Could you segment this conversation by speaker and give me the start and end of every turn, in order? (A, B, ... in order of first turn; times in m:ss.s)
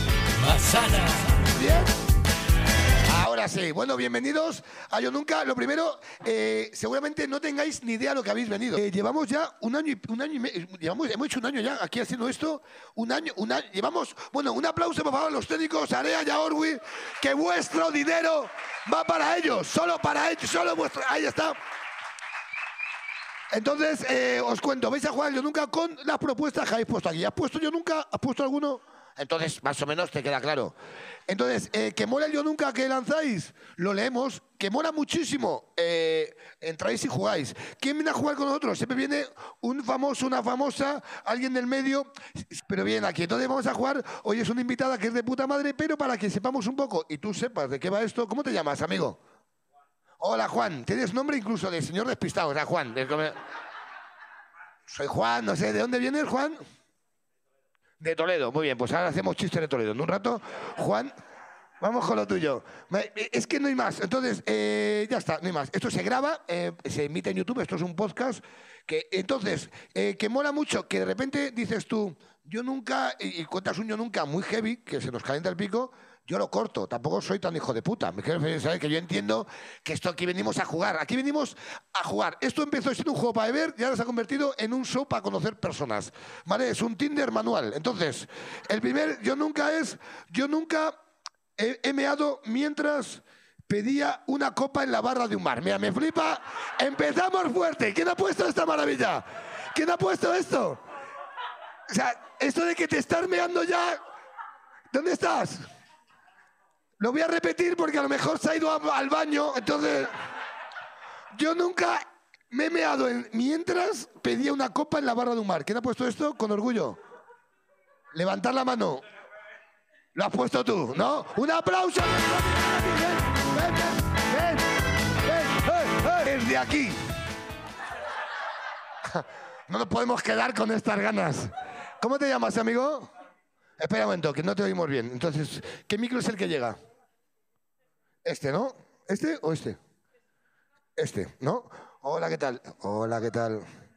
0:01.4-0:01.9 A
0:03.0-0:21.6 A
0:23.5-0:30.7 A
0:31.3-0:49.2 A
0:50.2-0:53.4 A
0:54.9-0:56.6 A
0:58.0-1:01.1 A
1:01.8-1:31.0 A
1:31.6-1:40.8 A
1:41.9-1:44.0 A
1:44.9-1:45.6 A
1:47.0-1:50.1 A
1:51.3-1:57.0 A
1:58.1-1:59.0 A
2:00.1-2:07.0 A
2:09.0-2:13.1 A
2:13.8-2:16.8 A
2:18.2-2:19.8 A
2:21.0-2:23.6 A